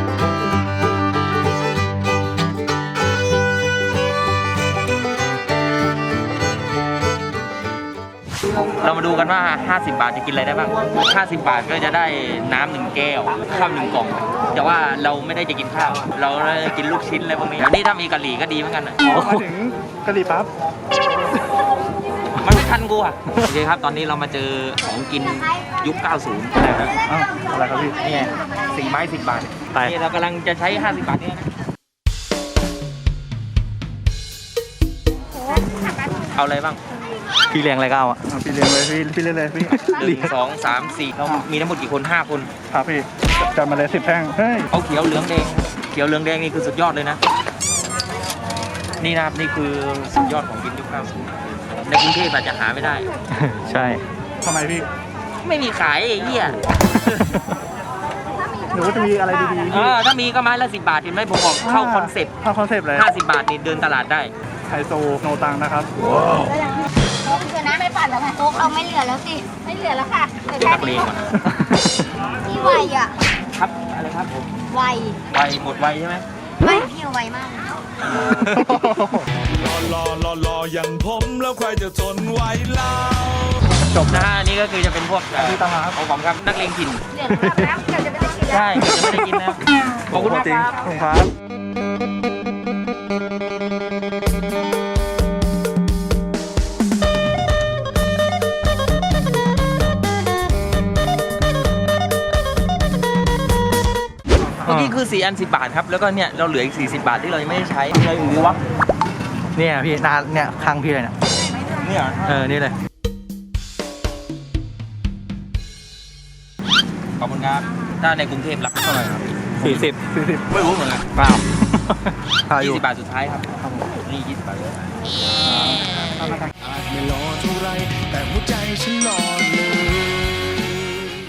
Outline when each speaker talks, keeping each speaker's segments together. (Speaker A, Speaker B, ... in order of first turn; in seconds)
Speaker A: 8.8-19.0, 22.4-26.9, 28.7-31.5, 36.3-36.8, 40.0-42.5, 44.7-47.2, 49.0-53.1, 55.4-56.6, 59.7-62.4, 62.9-64.3, 70.5-71.2, 73.5-74.5, 75.3-76.2, 84.1-87.0, 88.5-90.7, 104.6-108.6, 111.8-112.3, 117.2-118.8, 119.6-120.0, 120.5-121.0, 122.5-123.5, 124.0-125.1
Speaker B: 19.1-19.5, 26.6-26.9, 37.5-38.2, 39.7-40.2, 53.3-54.0, 57.0-57.5, 71.5-72.0, 87.3-87.7, 109.5-111.1, 112.2-112.7, 119.6-119.9, 121.2-122.8
Speaker C: 19.1-20.5, 27.0-28.0, 38.2-39.8, 41.2-41.5, 42.7-44.7, 53.6-54.9, 58.7-60.0, 61.6-63.1, 64.7-65.9, 78.5-79.2, 84.0-84.2, 85.3-86.0, 90.1-91.3, 118.8-120.7, 125.4-126.4
Speaker D: 66.4-71.1, 72.3-73.1, 74.7-75.2, 76.6-77.8, 87.1-88.6
Speaker E: 79.4-83.6, 126.7-130.1